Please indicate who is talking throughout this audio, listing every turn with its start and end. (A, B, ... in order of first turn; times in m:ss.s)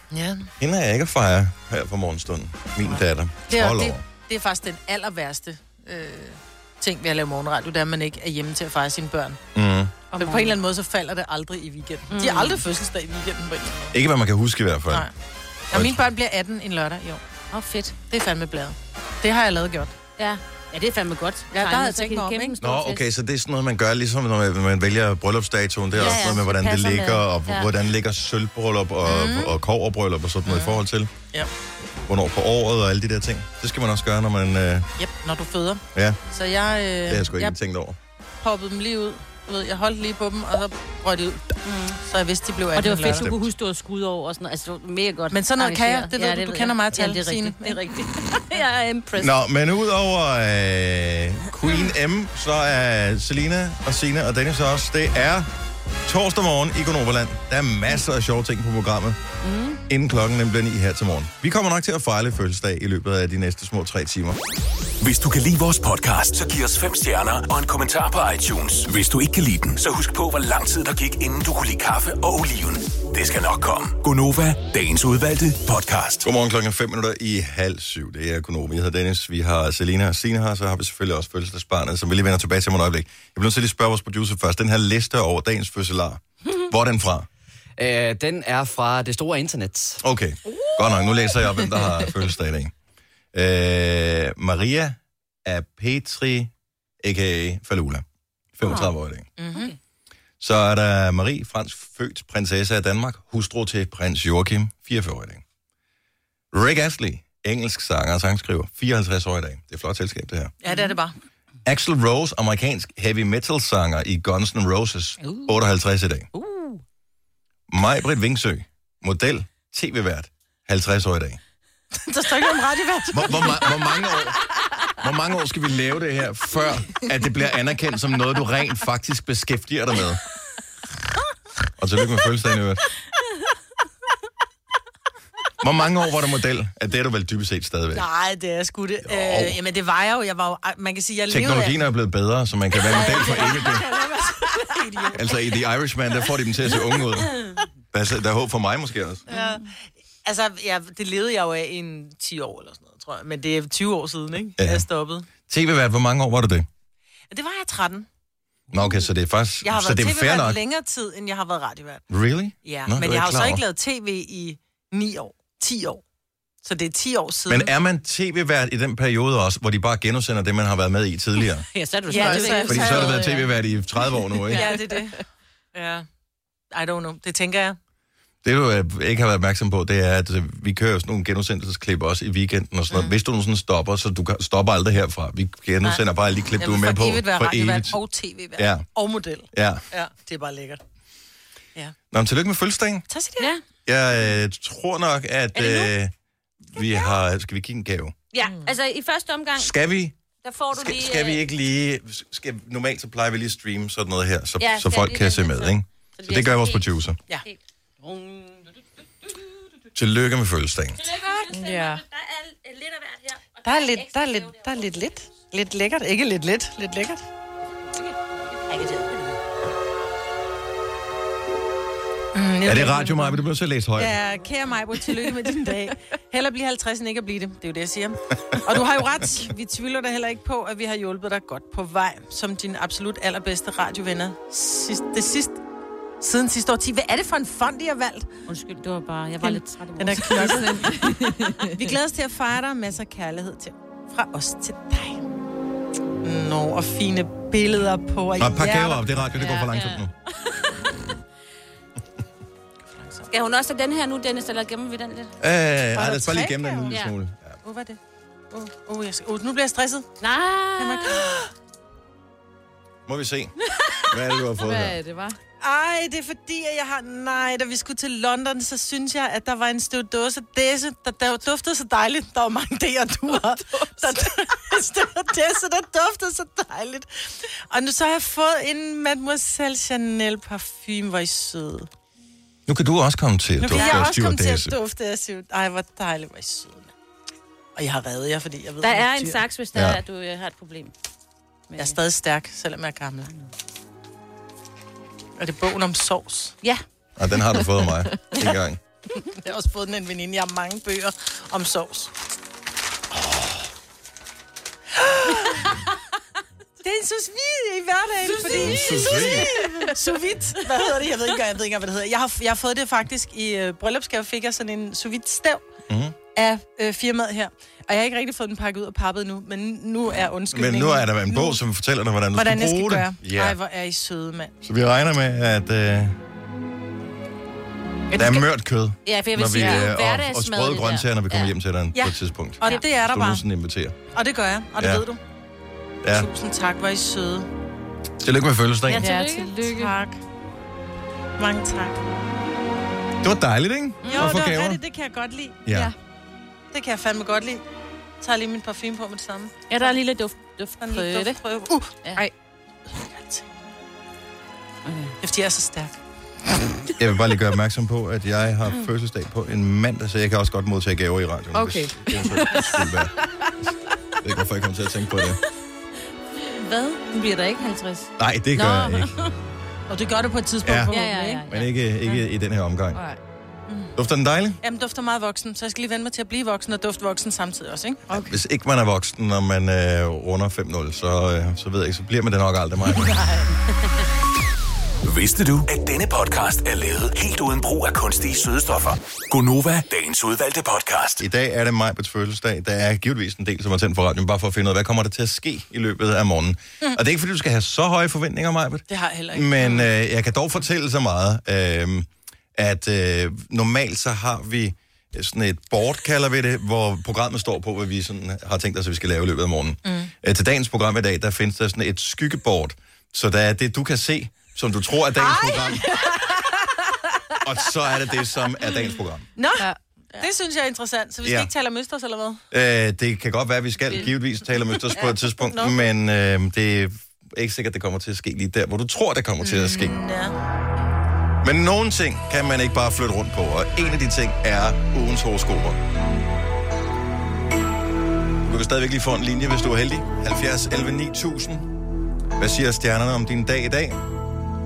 0:00.1-0:00.5 A
0:00.6-0:04.0 B
0:03.5-0:09.4 A
0:09.6-0:10.0 B
0:10.1-0:14.0 A
0:10.2-0:10.5 C
0:12.1-0:12.6 C
0:13.9-0:15.1 B
0:15.7-0:17.2 A
0:15.7-0:16.0 B
0:17.5-0:18.0 C
0:18.1-0:20.0 A
0:20.2-0:23.1 C
0:21.5-0:22.6 A
0:22.6-0:31.1 B
0:25.9-0:27.7 C
0:29.0-0:29.6 A
0:30.5-0:30.8 A
0:31.9-0:34.9 B
0:35.0-0:37.6 A
0:35.9-0:36.2 B
0:37.1-0:38.0 B
0:38.4-0:43.3 A
0:41.6-0:42.0 C
0:42.7-0:49.4 C
0:43.0-0:43.4 B
0:45.3-0:47.9 A
0:49.2-0:55.5 B
0:56.0-0:59.2 B
0:59.4-0:59.8 C
0:59.9-1:04.4 B
1:05.0-1:16.3 D
1:16.2-1:27.3 B
1:27.8-1:30.0 E
1:30.0-1:32.7 B
1:33.3-1:38.0 B
1:38.6-1:39.3 B
1:39.4-1:39.7 A
1:40.4-1:45.4 B
1:46.5-1:50.5 B
1:50.6-1:51.2 A
1:51.6-1:56.3 B
1:57.7-2:01.4 B
2:01.9-2:04.1 A
2:03.1-2:04.4 B
2:05.0-2:10.2 B
2:11.8-2:12.8 B
2:15.6-2:18.1 B
2:17.9-2:21.8 A
2:19.0-2:19.6 B
2:21.3-2:23.8 B
2:22.8-2:25.4 A
2:25.1-2:27.4 B
2:27.9-2:29.2 B
2:29.3-2:29.6 A
2:30.2-2:35.3 A
2:34.6-2:34.8 B
2:35.5-2:36.7 B
2:37.3-2:38.1 A
2:38.7-2:40.6 B
2:39.6-2:42.0 A
2:42.1-2:43.6 B
2:42.6-2:46.0 A
2:46.6-2:47.7 A
2:47.5-2:51.7 B
2:51.6-2:53.5 C
2:52.1-2:53.4 A
2:52.1-2:52.8 F
2:52.7-2:54.8 B
2:54.5-2:55.2 A
2:55.7-2:56.1 A
2:56.7-2:57.8 A
2:58.4-3:08.0 B
3:06.6-3:10.8 A
3:08.6-3:08.9 B
3:09.5-3:09.8 B
3:12.1-3:13.1 B
3:13.1-3:13.5 A
3:13.9-3:16.1 B
3:15.5-3:16.0 C
3:16.7-3:18.2 B
3:16.8-3:17.1 C
3:18.3-3:19.8 C
3:19.6-3:20.2 B
3:20.4-3:21.4 C
3:20.7-3:27.2 B
3:24.6-3:28.7 C
3:30.0-3:31.0 B
3:31.0-3:34.8 C
3:31.5-3:32.0 F
3:33.6-3:37.2 A
3:38.7-3:39.2 C
3:42.3-3:43.4 A
3:42.6-3:44.2 B
3:44.0-3:55.6 A
3:56.2-3:58.3 A
3:58.5-4:00.8 C
3:59.4-4:05.3 A
4:00.3-4:01.6 F
4:06.2-4:09.2 A
4:08.4-4:10.1 B
4:09.5-4:10.1 C
4:13.0-4:13.3 A
4:13.3-4:15.4 C
4:15.4-4:17.6 B
4:16.0-4:17.0 A
4:16.9-4:17.2 C
4:17.6-4:18.0 A
4:18.5-4:20.2 A
4:20.2-4:21.4 C
4:20.8-4:21.5 A
4:23.1-4:23.5 B
4:24.1-4:25.0 B
4:24.6-4:25.4 F
4:25.6-4:41.9 A
4:42.7-4:44.8 B
4:43.6-4:46.9 A
4:43.7-4:44.1 C
4:47.8-4:49.4 A
4:48.8-4:50.9 C
4:49.7-4:50.0 B
4:51.7-4:52.0 C
4:51.8-4:53.3 A
4:55.4-4:56.6 A
4:57.2-4:58.8 B
4:59.4-5:02.1 A
5:04.9-5:05.8 A
5:06.8-5:15.6 A
5:08.6-5:09.5 B
5:08.9-5:09.4 F
5:15.9-5:16.2 B
5:16.4-5:21.6 A
5:20.5-5:23.6 B
5:22.3-5:24.5 A
5:24.6-5:26.2 B
5:28.1-5:34.0 B
5:29.0-5:31.6 C
5:29.6-5:29.9 F
5:32.0-5:33.4 A
5:34.1-5:35.2 A
5:34.8-5:35.0 B
5:36.1-5:37.5 A
5:38.2-5:39.1 B
5:38.9-5:39.5 C
5:39.0-5:40.0 F
5:39.1-5:40.2 A
5:41.4-5:42.0 A
5:43.2-5:44.8 B
5:44.0-5:45.7 A
5:45.7-5:45.9 B
5:45.7-5:45.9 F
5:46.7-5:47.6 A
5:48.2-5:50.0 A
5:49.7-5:51.4 C
5:50.8-5:52.0 A
5:52.9-5:53.5 A
5:54.9-5:55.2 C
5:55.2-5:56.0 A
5:57.0-6:03.1 B
6:01.5-6:03.5 F
6:04.2-6:05.4 B
6:06.4-6:09.3 C
6:08.2-6:09.1 B
6:09.9-6:11.4 A
6:10.6-6:11.0 B
6:10.9-6:11.8 C
6:11.5-6:13.0 B
6:12.9-6:13.2 F
6:14.0-6:14.6 B
6:14.6-6:18.1 A
6:18.1-6:18.4 F
6:18.1-6:23.2 B
6:22.9-6:23.6 A
6:25.0-6:31.2 D
6:31.2-6:56.0 B
6:38.9-6:39.9 A
6:49.8-6:50.1 A
6:55.2-6:56.4 A
6:57.4-6:59.3 B
6:59.4-7:02.4 A
7:01.2-7:01.5 B
7:02.5-7:10.0 B
7:04.9-7:05.9 A
7:09.4-7:10.4 A
7:11.4-7:15.8 B
7:18.4-7:21.7 B
7:22.4-7:24.0 B